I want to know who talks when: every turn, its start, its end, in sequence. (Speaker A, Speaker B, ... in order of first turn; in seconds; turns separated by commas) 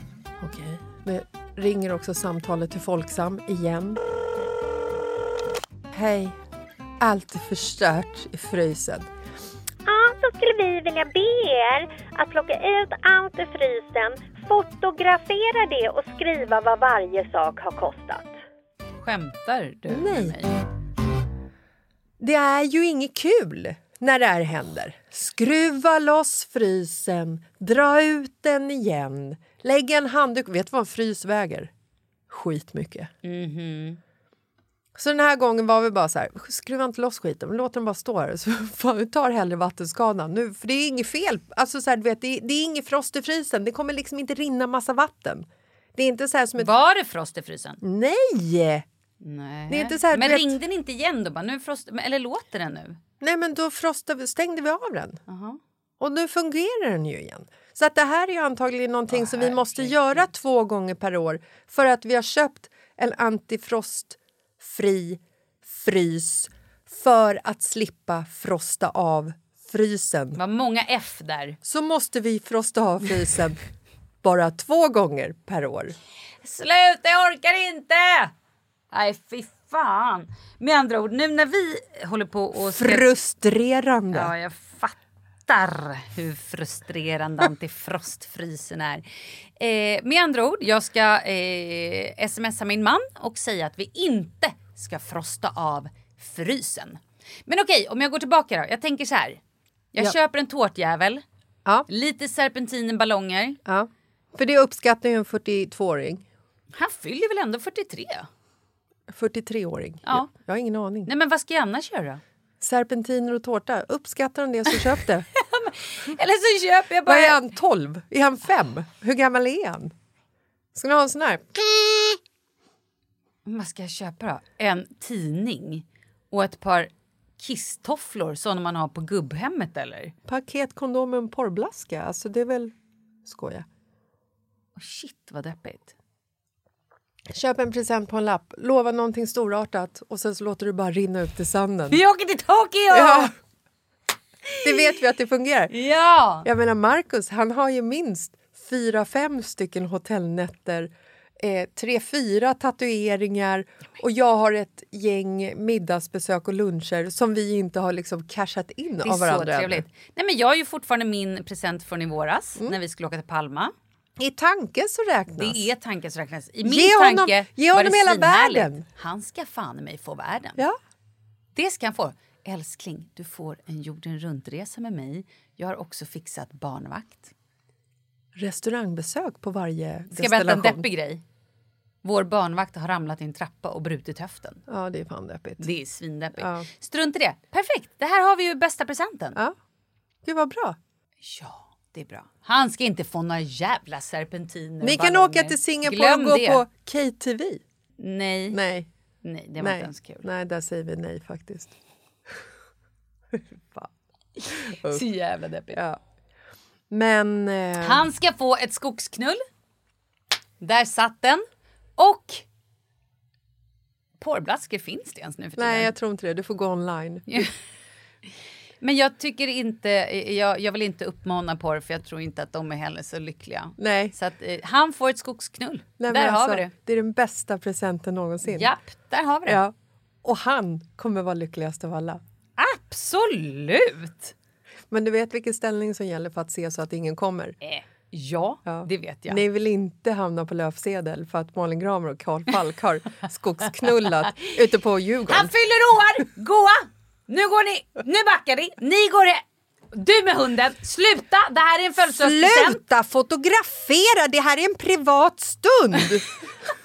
Speaker A: 0.4-4.0, Speaker A: 5.9-6.3, Speaker A: 7.0-9.1, Speaker B: 9.8-18.4, Speaker C: 19.0-20.5, Speaker A: 19.9-20.4, Speaker A: 22.2-31.7, Speaker A: 32.3-33.1, Speaker C: 33.2-34.0, Speaker A: 34.9-46.7, Speaker C: 46.6-47.8, Speaker A: 47.8-48.8, Speaker C: 49.2-53.0, Speaker A: 49.7-50.5, Speaker A: 53.2-55.2, Speaker C: 55.3-55.6, Speaker A: 56.0-70.4, Speaker C: 59.1-60.3, Speaker C: 70.3-71.6, Speaker A: 71.6-73.6, Speaker A: 74.2-75.9, Speaker C: 76.4-78.3, Speaker C: 78.9-83.0, Speaker A: 82.8-84.3, Speaker C: 84.1-89.0, Speaker C: 89.6-99.4, Speaker C: 99.9-101.2, Speaker C: 101.9-103.6, Speaker A: 103.7-106.2, Speaker C: 106.7-108.3, Speaker A: 109.1-111.1, Speaker C: 111.1-112.2, Speaker A: 112.6-115.3, Speaker C: 115.4-117.4, Speaker A: 117.1-119.9, Speaker A: 120.7-122.2, Speaker C: 123.5-130.1, Speaker A: 130.3-132.7, Speaker A: 133.2-133.7, Speaker C: 134.8-135.9, Speaker A: 137.3-142.0, Speaker C: 141.9-143.3, Speaker A: 142.9-143.3, Speaker A: 144.6-145.7, Speaker C: 145.7-146.4, Speaker A: 146.4-159.8, Speaker C: 159.0-163.7, Speaker A: 164.2-165.7, Speaker C: 165.3-170.6, Speaker A: 166.6-168.8, Speaker C: 171.5-177.3, Speaker A: 178.3-180.8, Speaker C: 180.1-181.2, Speaker C: 182.0-184.6, Speaker A: 184.7-185.7, Speaker C: 185.6-189.4, Speaker A: 186.4-186.7, Speaker A: 190.2-190.8, Speaker C: 191.2-196.6, Speaker A: 194.8-197.6, Speaker C: 198.0-198.6, Speaker A: 198.5-198.9, Speaker C: 199.2-200.2, Speaker A: 199.6-201.7, Speaker A: 203.3-203.9, Speaker C: 204.4-205.8, Speaker A: 204.6-205.0, Speaker A: 205.7-206.0, Speaker A: 206.9-208.1, Speaker C: 207.8-209.4, Speaker C: 210.6-211.4, Speaker C: 212.0-212.4, Speaker C: 214.2-215.9, Speaker A: 215.6-217.5, Speaker C: 218.8-226.7, Speaker A: 223.8-224.1, Speaker A: 226.0-228.7, Speaker C: 228.5-229.6, Speaker A: 229.4-232.2, Speaker C: 232.6-234.3, Speaker A: 234.9-237.6, Speaker C: 237.6-239.4, Speaker A: 238.7-245.5, Speaker C: 245.3-249.4, Speaker C: 249.9-252.8, Speaker A: 252.1-256.4